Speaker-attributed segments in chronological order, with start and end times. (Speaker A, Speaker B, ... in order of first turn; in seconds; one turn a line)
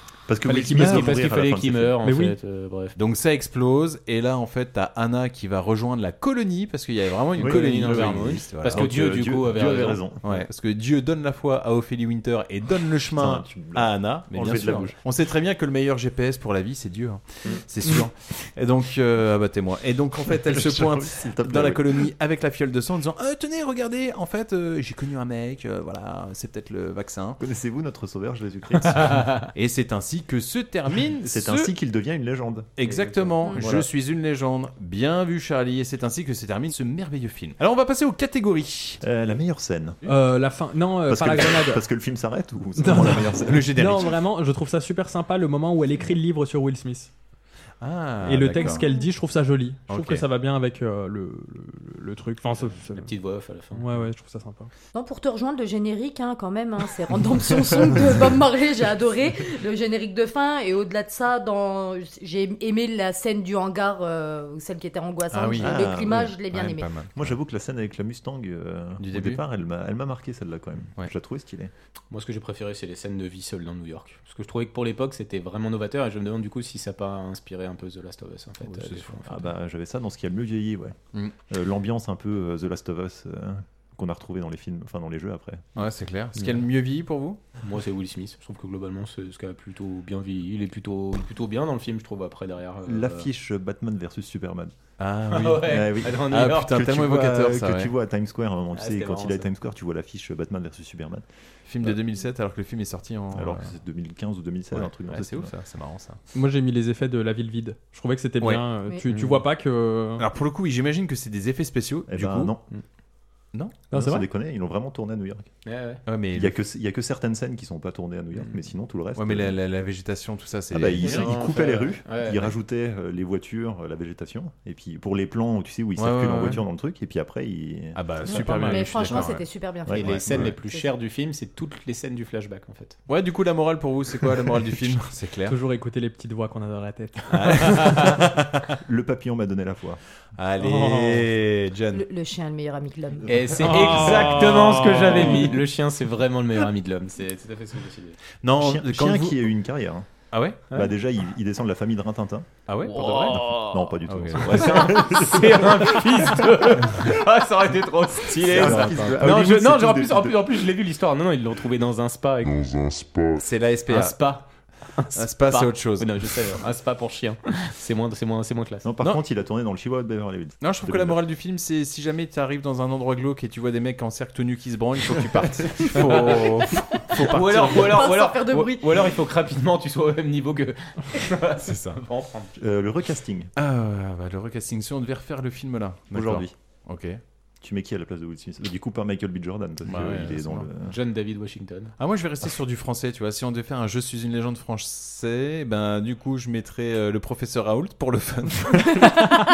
Speaker A: 0.3-2.0
Speaker B: 0.5-1.1
Speaker C: 0.7-3.0
Speaker B: 2.0-2.4
Speaker D: 3.0-9.0
Speaker C: 7.4-10.0
Speaker A: 7.4-10.5
Speaker D: 10.2-27.4
Speaker A: 13.1-14.9
Speaker A: 20.5-22.1
Speaker A: 27.4-29.3
Speaker C: 28.9-29.5
Speaker D: 29.5-31.7
Speaker A: 31.2-32.7
Speaker D: 32.8-39.0
Speaker C: 32.8-33.9
Speaker A: 39.0-40.0
Speaker B: 40.1-41.8
Speaker A: 41.1-43.7
Speaker B: 42.8-43.2
Speaker D: 43.4-44.1
Speaker B: 43.8-47.1
Speaker D: 47.8-48.9
Speaker B: 48.2-53.1
Speaker E: 48.5-49.1
Speaker D: 49.9-50.2
Speaker C: 52.6-54.0
Speaker B: 53.7-54.7
Speaker E: 54.9-66.9
Speaker D: 65.3-67.3
Speaker A: 65.6-66.3
Speaker A: 67.2-71.7
Speaker D: 69.0-69.4
Speaker C: 72.1-79.5
Speaker A: 78.7-81.0
Speaker A: 81.5-85.8
Speaker D: 85.8-87.4
Speaker C: 87.6-93.3
Speaker A: 92.9-94.8
Speaker D: 95.0-97.9
Speaker C: 95.3-96.7
Speaker A: 95.6-101.2
Speaker C: 98.7-99.5
Speaker D: 101.7-103.7
Speaker A: 103.3-105.5
Speaker D: 104.8-106.2
Speaker B: 106.3-110.2
Speaker C: 109.1-109.4
Speaker D: 110.2-112.5
Speaker A: 112.1-112.6
Speaker D: 113.5-113.8
Speaker B: 113.9-114.3
Speaker A: 113.9-115.5
Speaker C: 115.7-116.0
Speaker D: 116.1-116.6
Speaker A: 116.3-119.5
Speaker D: 119.2-121.4
Speaker A: 120.7-128.7
Speaker C: 121.0-122.5
Speaker D: 126.0-126.7
Speaker D: 128.0-129.4
Speaker E: 128.2-130.9
Speaker B: 128.3-129.2
Speaker A: 129.9-130.5
Speaker C: 129.9-133.0
Speaker D: 133.1-135.6
Speaker B: 135.5-138.0
Speaker D: 137.3-138.7
Speaker A: 138.8-140.0
Speaker D: 140.4-142.1
Speaker B: 140.6-141.2
Speaker E: 141.9-143.7
Speaker C: 143.3-148.2
Speaker B: 143.6-145.4
Speaker D: 148.4-149.4
Speaker A: 148.6-150.1
Speaker D: 150.3-150.6
Speaker A: 150.7-155.7
Speaker D: 152.7-153.3
Speaker C: 152.9-153.7
Speaker D: 154.1-155.0
Speaker C: 154.5-163.1
Speaker A: 158.4-160.5
Speaker D: 158.5-159.3
Speaker D: 163.3-164.3
Speaker C: 163.9-168.9
Speaker D: 165.1-166.1
Speaker A: 168.8-171.2
Speaker D: 170.6-178.1
Speaker C: 177.2-182.5
Speaker E: 177.5-179.2
Speaker D: 181.6-182.0
Speaker A: 182.6-183.5
Speaker D: 183.6-187.2
Speaker A: 186.1-186.5
Speaker A: 187.6-190.9
Speaker D: 189.8-190.7
Speaker C: 190.8-191.9
Speaker D: 192.0-199.2